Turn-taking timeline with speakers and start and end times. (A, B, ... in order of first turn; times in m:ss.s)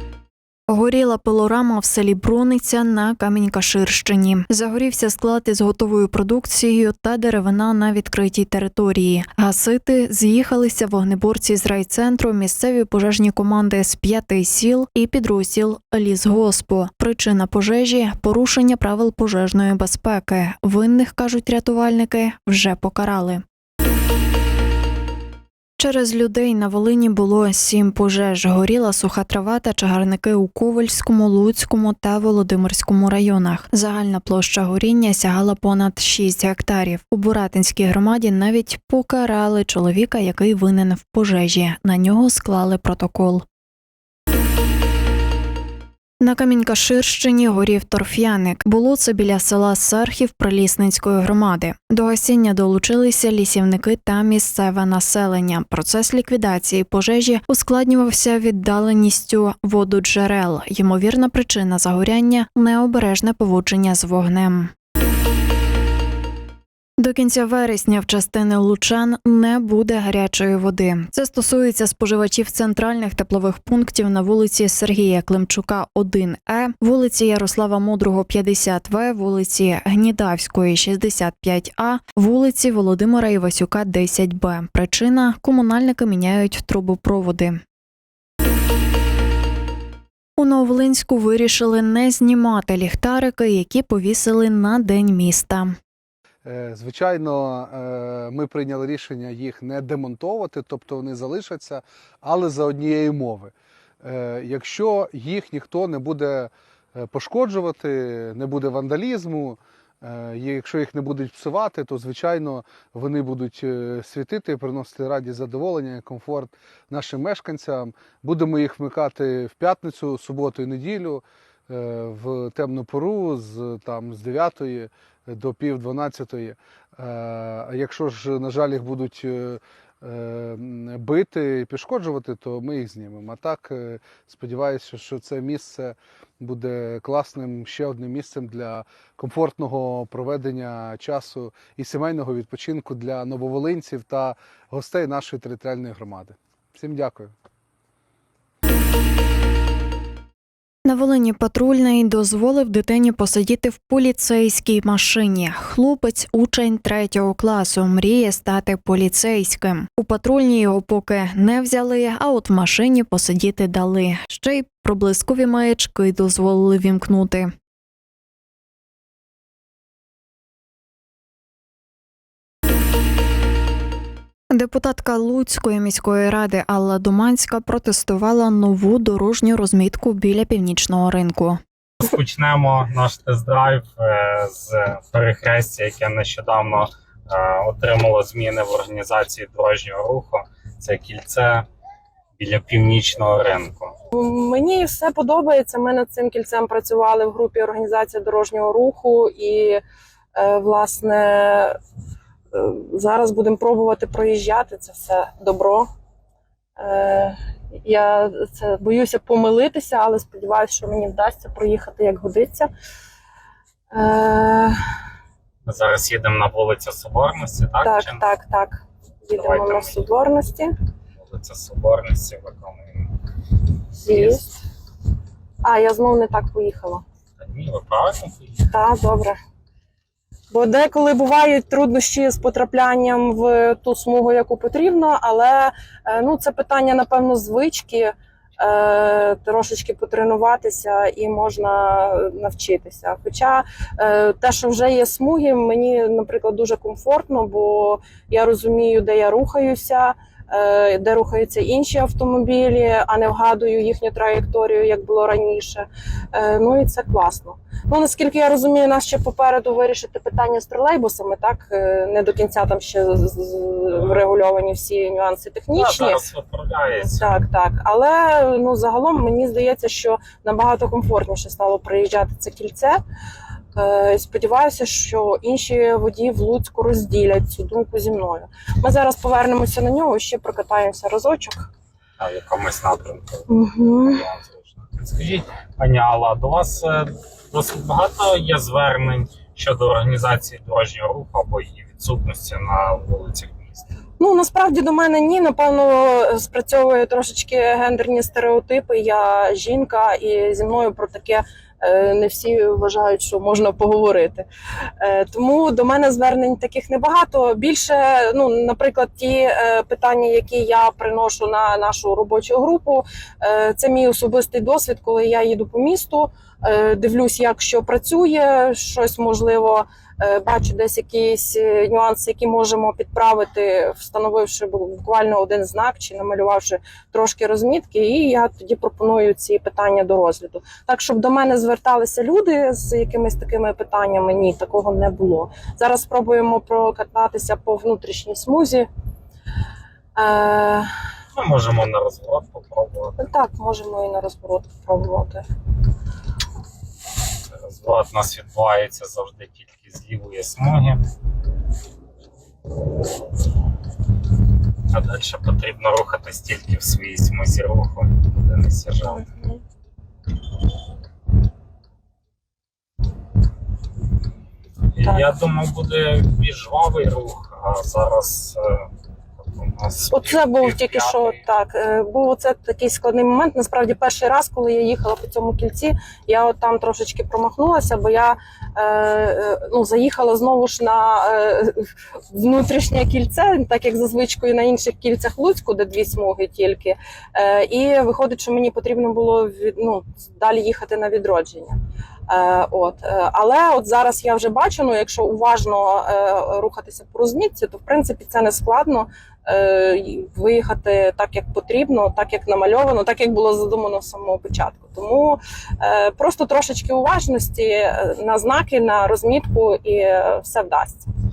0:00.7-0:23.4 A
0:25.8-0:43.4 A
0:46.2-1:04.7 A
1:07.0-1:27.6 A
1:30.4-1:35.7 A
1:36.4-2:27.3 B
2:30.8-2:47.5 A
2:54.5-3:01.6 A
3:02.0-3:11.6 C
3:12.4-3:14.0 C
3:14.1-3:19.8 D
3:20.4-3:21.8 D
3:22.5-3:25.9 D
3:26.8-3:32.7 D
3:33.9-3:34.8 D
3:35.6-3:38.2 C
3:37.8-3:40.7 D
3:39.3-3:40.1 C
3:41.2-3:43.2 C
3:43.9-3:44.6 D
3:44.1-3:44.4 C
3:45.6-3:47.0 D
3:47.4-3:48.6 C
3:48.7-3:49.4 D
3:50.5-4:26.2 D
4:25.7-4:27.4 C
4:26.9-4:33.0 D
4:33.8-4:41.7 D
4:42.2-4:53.8 C
4:43.5-4:44.2 D
4:54.2-5:04.4 D
5:05.0-5:38.9 D
5:40.2-5:40.9 D
5:41.3-5:43.2 C
5:43.2-5:45.4 D
5:47.6-5:51.0 C
5:54.9-5:59.2 C
5:59.0-5:59.6 D
6:04.9-6:11.4 C
6:05.0-6:05.3 D
6:10.1-6:51.1 D